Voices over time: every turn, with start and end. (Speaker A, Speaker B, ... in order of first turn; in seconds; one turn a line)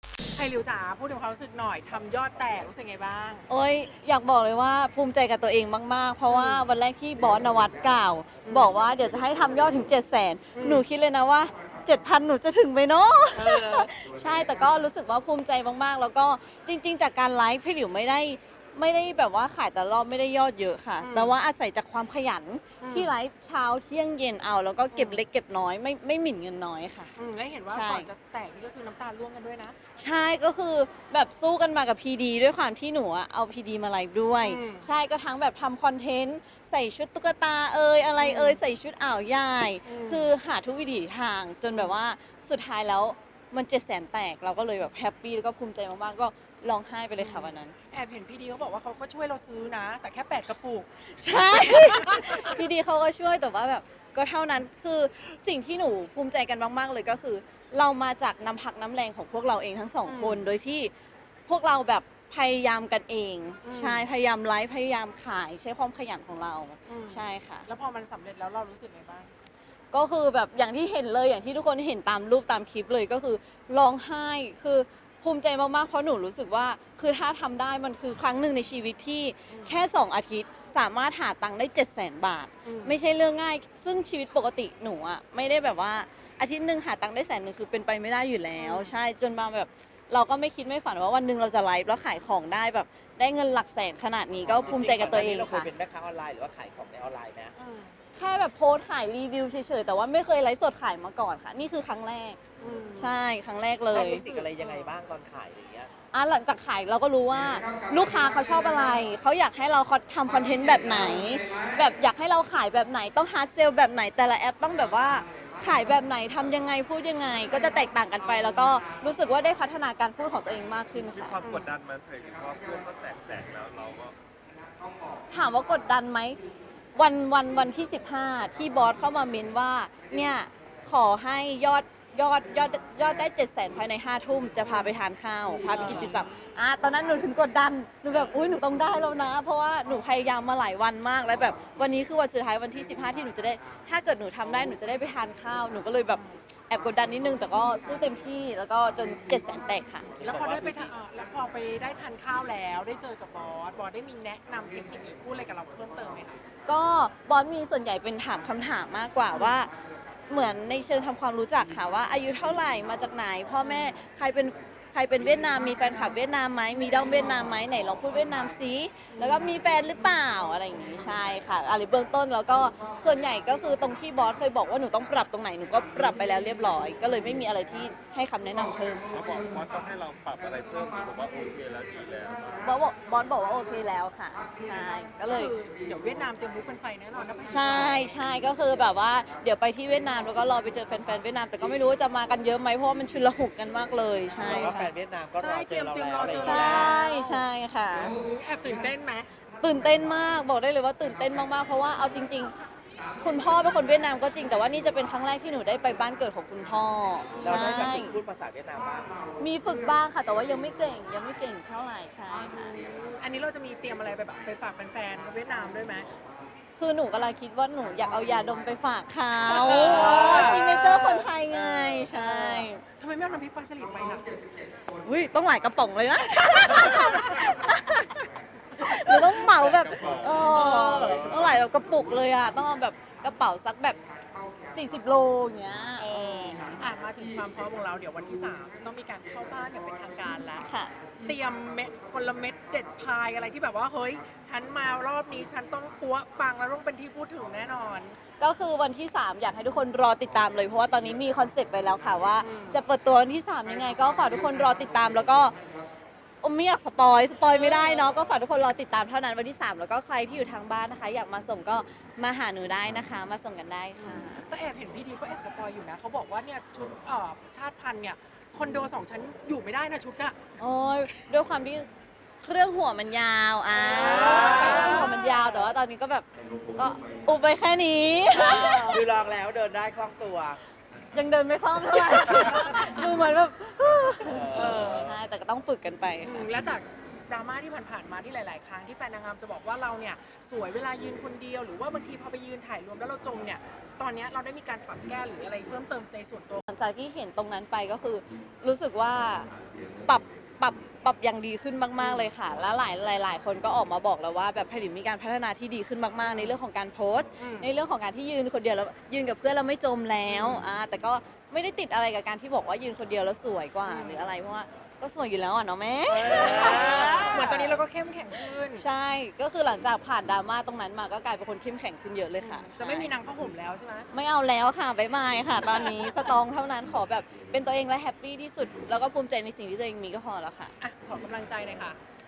Speaker A: 0.3-3.5
Speaker B: 3.5-27.1
Speaker A: 6.3-6.6
Speaker A: 8.4-8.8
Speaker A: 10.5-10.8
Speaker A: 13.3-13.9
Speaker A: 21.0-21.4
Speaker A: 22.8-23.1
Speaker A: 24.9-25.2
Speaker A: 27.1-29.8
Speaker B: 27.7-28.1
Speaker B: 30.0-47.7
Speaker A: 34.4-34.9
Speaker A: 38.2-38.6
Speaker A: 39.8-40.3
Speaker A: 47.2-50.9
Speaker B: 51.1-60.9
Speaker A: 51.4-52.5
Speaker A: 60.0-60.4
Speaker B: 61.5-67.7
Speaker A: 63.6-64.1
Speaker A: 66.9-69.3
Speaker B: 69.9-95.7
Speaker A: 79.5-79.8
Speaker A: 82.6-83.0
Speaker A: 88.6-89.0
Speaker C: 94.4-97.5
Speaker A: 97.6-98.0
Speaker B: 98.1-102.4
Speaker A: 102.6-103.2
Speaker B: 103.0-104.2
Speaker A: 103.9-104.9
Speaker C: 103.9-105.9
Speaker B: 106.1-121.4
Speaker D: 121.2-124.2
Speaker A: 121.4-121.7
Speaker B: 125.3-126.4
Speaker B: 127.0-150.1
Speaker A: 135.6-136.2
Speaker A: 150.2-156.4
Speaker C: 150.2-150.9
Speaker B: 156.7-159.7
Speaker B: 160.3-179.1
Speaker A: 163.6-163.9
Speaker A: 169.1-169.5
Speaker D: 179.1-182.7
Speaker B: 182.6-185.5
Speaker A: 185.2-188.1
Speaker B: 187.5-194.9
Speaker C: 194.4-197.0
Speaker A: 195.4-197.4
Speaker B: 196.4-198.2
Speaker A: 198.0-199.3
Speaker B: 199.6-202.5
Speaker B: 203.2-208.1
Speaker A: 207.3-208.0
Speaker C: 207.4-209.1
Speaker B: 209.4-212.7
Speaker A: 212.5-216.1
Speaker B: 216.8-222.8
Speaker A: 219.4-224.3
Speaker B: 225.0-228.2
Speaker B: 228.8-234.0
Speaker D: 229.2-231.6
Speaker A: 230.2-231.4
Speaker B: 234.7-236.8
Speaker A: 236.0-240.6
Speaker B: 240.6-240.9
Speaker A: 241.2-248.2
Speaker B: 248.4-255.5
Speaker A: 252.4-252.8
Speaker B: 256.4-264.4
Speaker A: 257.4-258.2
Speaker A: 264.5-270.4
Speaker B: 270.6-271.9
Speaker B: 272.4-279.0
Speaker A: 273.8-275.7
Speaker C: 274.2-275.1
Speaker C: 278.3-280.6
Speaker A: 278.3-279.0
Speaker B: 281.1-286.5
Speaker C: 284.2-285.2
Speaker A: 284.5-285.1
Speaker A: 286.2-296.6
Speaker B: 296.7-299.5
Speaker B: 300.0-317.8
Speaker A: 302.0-302.3
Speaker A: 306.2-306.6
Speaker A: 307.4-307.7
Speaker A: 310.3-310.6
Speaker A: 313.8-314.3
Speaker A: 316.1-318.8
Speaker C: 316.3-317.2
Speaker B: 318.7-323.1
Speaker A: 322.4-324.1
Speaker B: 324.1-330.7
Speaker A: 325.6-326.1
Speaker A: 330.8-332.0